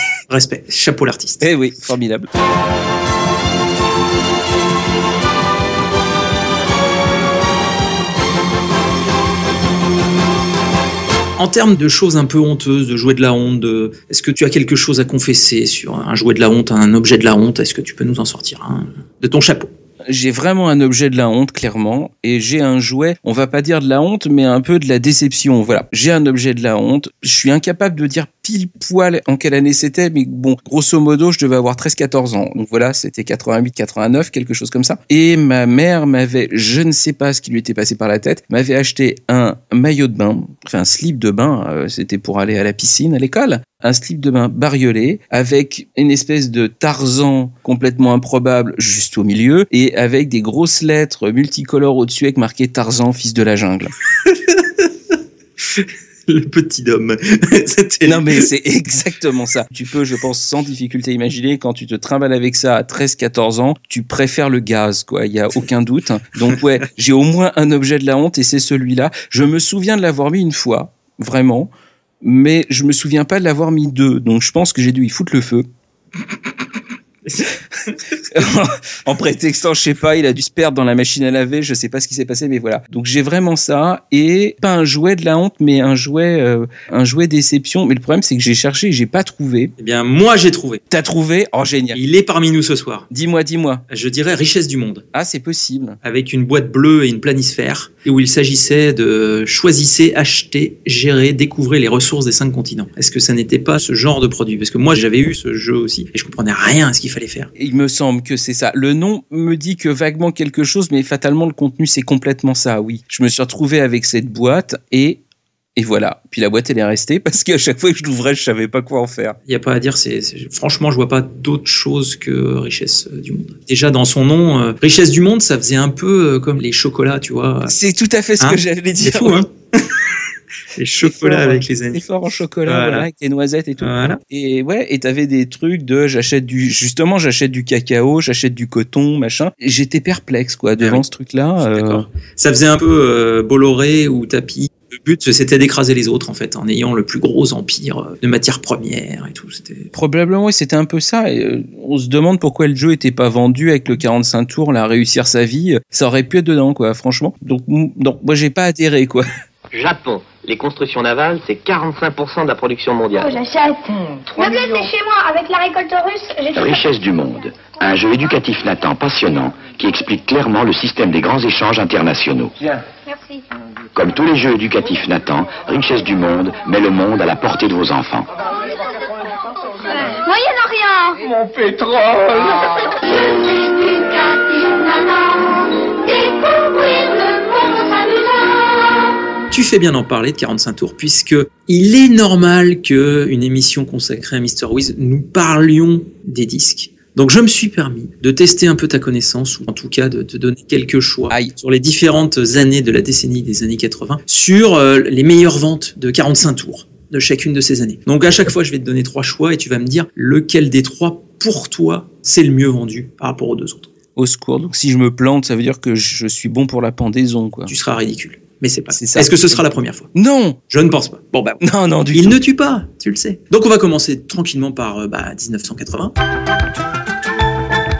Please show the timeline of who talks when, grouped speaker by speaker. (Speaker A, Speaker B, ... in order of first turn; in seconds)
Speaker A: 0.3-1.5, 11.4-19.7, 54.3-54.9, 55.7-58.5, 77.2-78.5, 89.8-90.8, 91.9-93.1, 93.9-95.0, 96.0-107.5, 119.5-127.8, 128.4-130.1, 130.8-132.0, 132.7-133.1, 133.8-134.2, 141.6-149.9, 189.5-213.9, 217.7-220.1, 220.7-221.6, 222.1-226.2
Speaker B: 1.4-2.3, 20.1-53.9, 58.1-71.7, 72.2-75.7, 78.3-89.7, 90.9-92.0, 93.1-93.8, 95.1-96.0, 107.6-115.2, 115.8-119.4, 127.7-129.5, 131.0-142.1, 149.9-159.3, 214.2-217.7, 218.9-219.6, 220.1-220.6, 221.6-222.4
Speaker C: 159.7-163.4, 164.4-164.9
Speaker D: 163.2-166.8, 173.1-173.4, 179.9-181.5, 183.3-185.1, 186.6-187.9
Speaker E: 166.5-172.6, 173.9-178.3